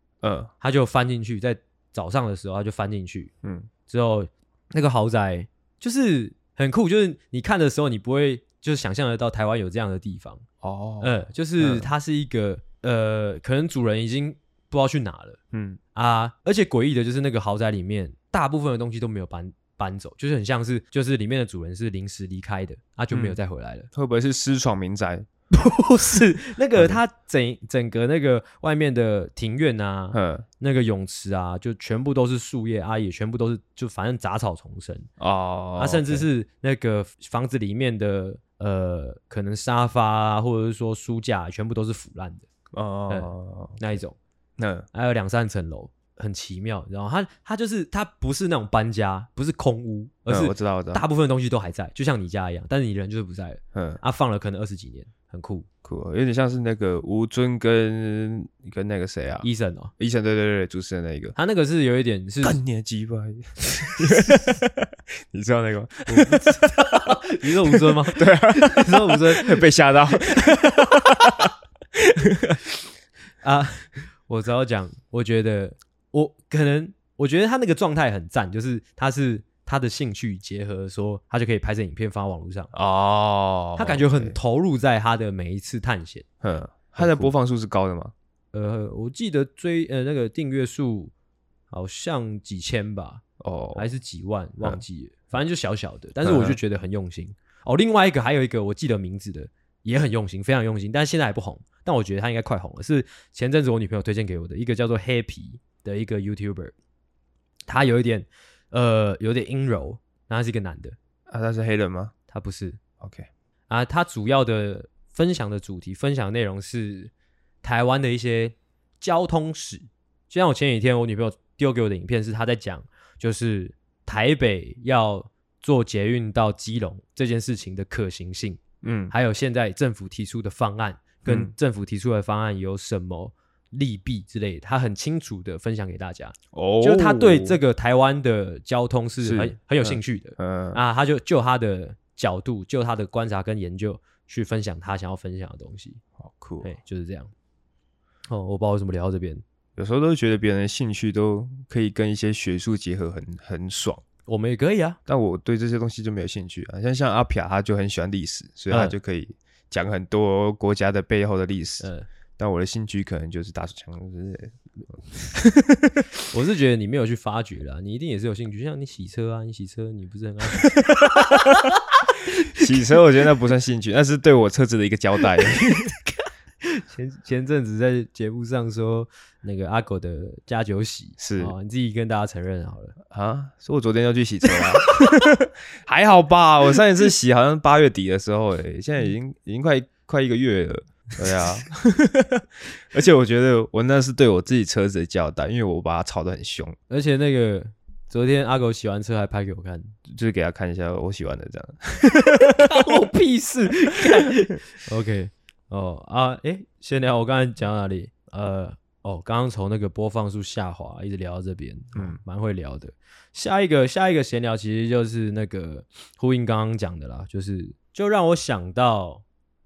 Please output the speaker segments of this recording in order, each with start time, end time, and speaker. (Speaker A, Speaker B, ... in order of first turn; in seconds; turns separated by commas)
Speaker A: 0.2-0.5, Speaker B: 0.6-3.3, Speaker A: 3.4-3.7, Speaker B: 3.9-10.4, Speaker A: 10.6-11.9, Speaker B: 11.0-15.4, Speaker A: 15.5-15.8, Speaker B: 15.9-23.9, Speaker A: 23.1-23.4, Speaker A: 23.9-25.3, Speaker B: 25.5-35.1, Speaker A: 26.8-27.0, Speaker A: 30.1-30.4, Speaker A: 35.2-36.3, Speaker B: 35.8-42.5, Speaker A: 42.7-44.0, Speaker B: 43.1-44.2, Speaker A: 44.6-44.9, Speaker B: 44.9-55.7, Speaker A: 50.3-51.0, Speaker A: 53.7-54.0, Speaker A: 55.8-61.4, Speaker B: 59.4-59.9, Speaker B: 61.4-62.6, Speaker A: 62.4-72.6, Speaker B: 64.0-64.5, Speaker B: 66.1-69.7, Speaker B: 70.3-71.5, Speaker B: 73.4-82.7, Speaker A: 82.7-84.4, Speaker B: 83.8-86.2, Speaker A: 86.4-88.1, Speaker B: 87.0-87.3, Speaker B: 88.5-91.1, Speaker B: 91.7-93.2, Speaker A: 93.4-93.9, Speaker B: 93.8-106.8, Speaker A: 96.2-96.6, Speaker B: 107.7-111.0, Speaker A: 111.3-112.1, Speaker B: 112.3-112.8, Speaker A: 113.0-113.3, Speaker B: 113.7-117.1, Speaker B: 117.6-128.6, Speaker A: 128.8-129.1, Speaker B: 129.1-146.0, Speaker A: 131.3-131.5, Speaker A: 136.5-137.6, Speaker A: 139.2-140.8, Speaker A: 146.2-146.7, Speaker B: 146.6-147.3, Speaker B: 148.3-149.4, Speaker A: 149.8-154.0, Speaker B: 154.3-155.0, Speaker A: 155.1-166.0, Speaker B: 158.7-158.9, Speaker B: 161.8-162.1, Speaker B: 166.3-172.8, Speaker A: 170.9-171.6, Speaker A: 172.5-175.9, Speaker B: 175.4-182.9, Speaker A: 181.2-181.5, Speaker A: 183.1-196.8, Speaker B: 184.5-185.3, Speaker B: 196.9-199.9, Speaker A: 200.1-202.9, Speaker B: 202.4-219.2, Speaker A: 211.9-212.2